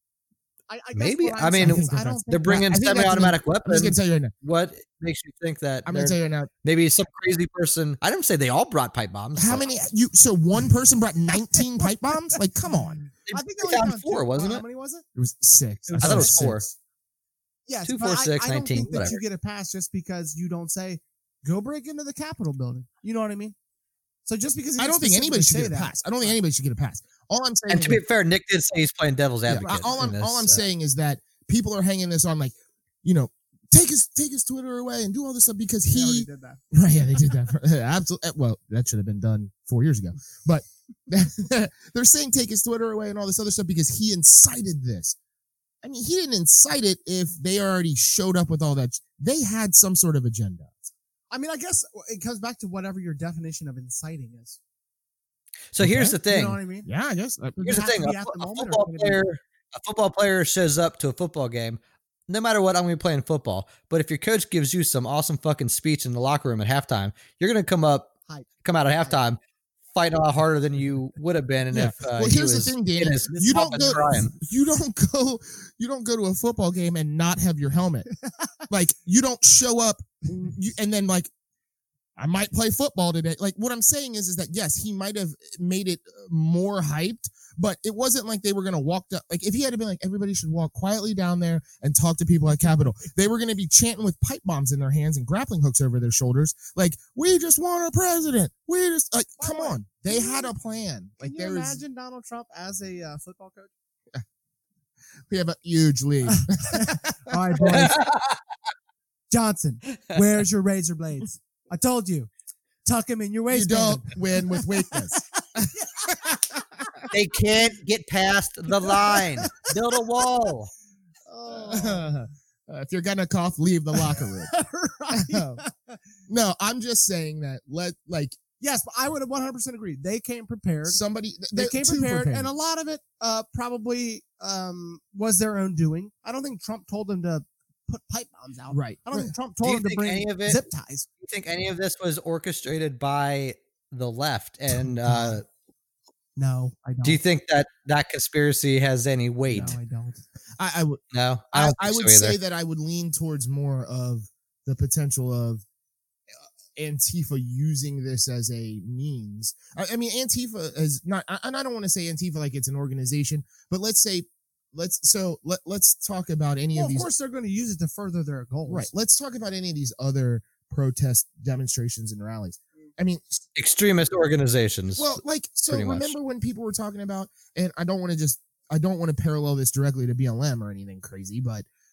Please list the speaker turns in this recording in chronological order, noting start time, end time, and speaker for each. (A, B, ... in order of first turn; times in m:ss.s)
0:00.7-0:02.7 A
0:01.0-0:09.7 B
0:01.6-0:04.3 C
0:05.8-0:06.5 C
0:09.4-0:13.0 C
0:13.2-0:14.6 B
0:13.3-0:15.0 A
0:15.2-0:16.7 C
0:15.8-0:16.6 A
0:16.0-0:16.7 B
0:17.7-0:23.5 A
0:17.8-0:19.2 B
0:24.2-0:26.4 A
0:24.8-0:28.0 C
0:27.7-0:30.6 B
0:29.5-0:45.2 C
0:29.6-0:29.9 A
0:35.9-0:36.6 A
0:45.8-0:50.8 C
0:51.3-0:54.6 A
0:55.7-0:56.6 B
0:55.8-0:56.2 C
0:56.2-0:56.9 A
0:56.8-0:57.8 C
0:57.6-0:59.2 A
0:57.6-1:09.4 B
1:09.9-1:14.3 B
1:11.7-1:18.1 C
1:13.3-1:14.2 A
1:18.2-1:18.5 A
1:18.7-1:21.3 C
1:22.2-1:41.8 C
1:39.4-1:40.5 A
1:41.2-1:43.7 A
1:45.3-1:47.8 C
1:46.3-1:48.0 A
1:47.6-1:48.4 B
1:49.3-1:52.3 A
1:52.8-1:55.2 A
1:53.5-1:56.3 C
1:55.7-1:57.0 A
1:57.1-2:00.7 B
1:58.8-1:59.7 A
2:01.3-2:02.3 A
2:01.5-2:04.5 C
2:04.0-2:06.0 A
2:05.1-2:05.6 C
2:06.3-2:08.4 C
2:08.6-2:11.0 A
2:10.8-2:12.5 C
2:11.5-2:21.1 A
2:18.7-2:19.3 C
2:19.6-2:20.6 B
2:21.2-2:25.4 B
2:26.4-2:27.2 A
2:27.0-2:29.8 B
2:29.5-2:29.8 C
2:29.5-2:30.2 A
2:30.6-2:35.6 C
2:31.1-2:32.4 B
2:36.7-2:47.1 C
2:46.7-2:48.9 A
2:48.7-2:53.4 C
2:53.6-2:56.1 B
2:55.0-3:01.6 C